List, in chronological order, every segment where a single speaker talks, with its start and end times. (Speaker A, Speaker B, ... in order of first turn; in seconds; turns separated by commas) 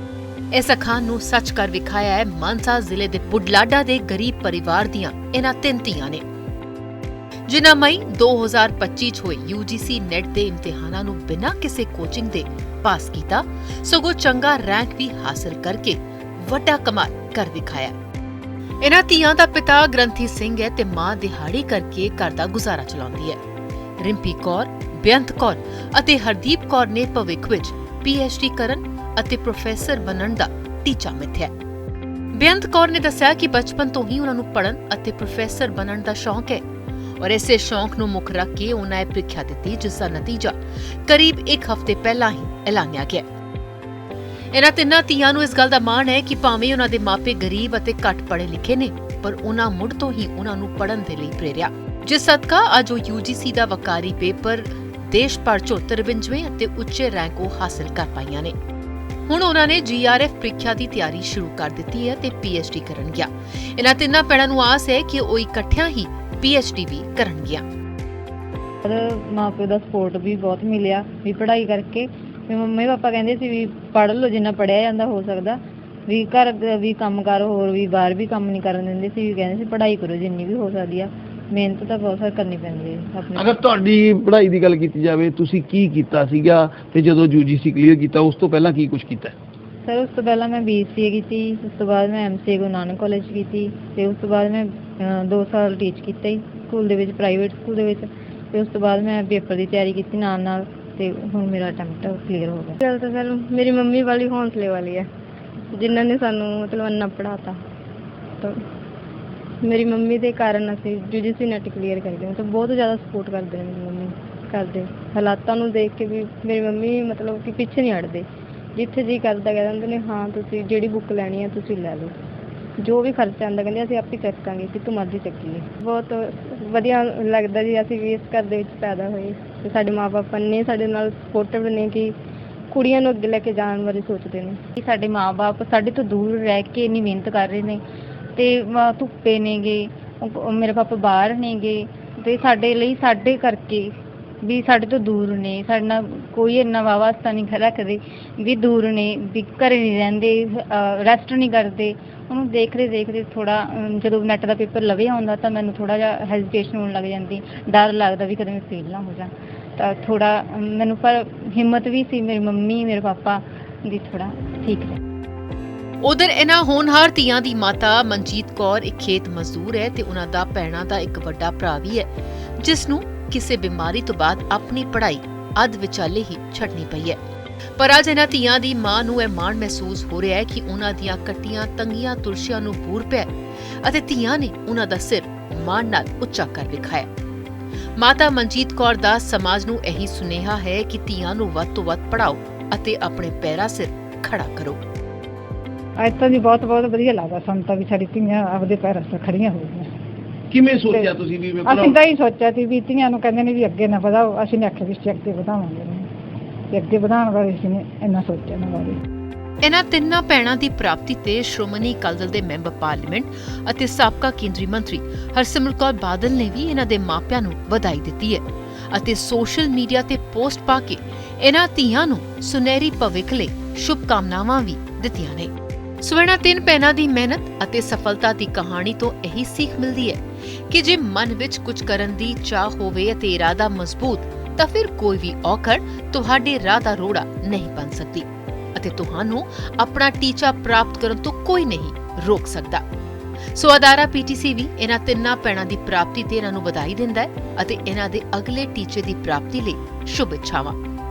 Speaker A: 0.5-6.2, Speaker A: 7.5-17.9, Speaker A: 18.8-23.4, Speaker A: 24.0-31.5, Speaker A: 32.3-36.6, Speaker A: 37.2-43.2, Speaker A: 44.5-58.5, Speaker A: 59.3-67.7, Speaker B: 68.8-83.5, Speaker C: 83.4-89.3, Speaker B: 89.8-102.8, Speaker D: 102.8-105.1, Speaker D: 105.7-107.6, Speaker D: 108.4-108.7, Speaker D: 109.6-122.2, Speaker D: 122.8-132.2, Speaker D: 132.7-134.6, Speaker B: 134.8-137.8, Speaker B: 138.3-165.0, Speaker A: 166.0-177.2, Speaker A: 177.8-187.1, Speaker A: 188.0-194.8, Speaker E: 196.0-199.8, Speaker C: 200.5-202.0, Speaker E: 201.8-205.8, Speaker E: 206.8-209.0, Speaker A: 209.6-242.8, Speaker A: 243.5-250.8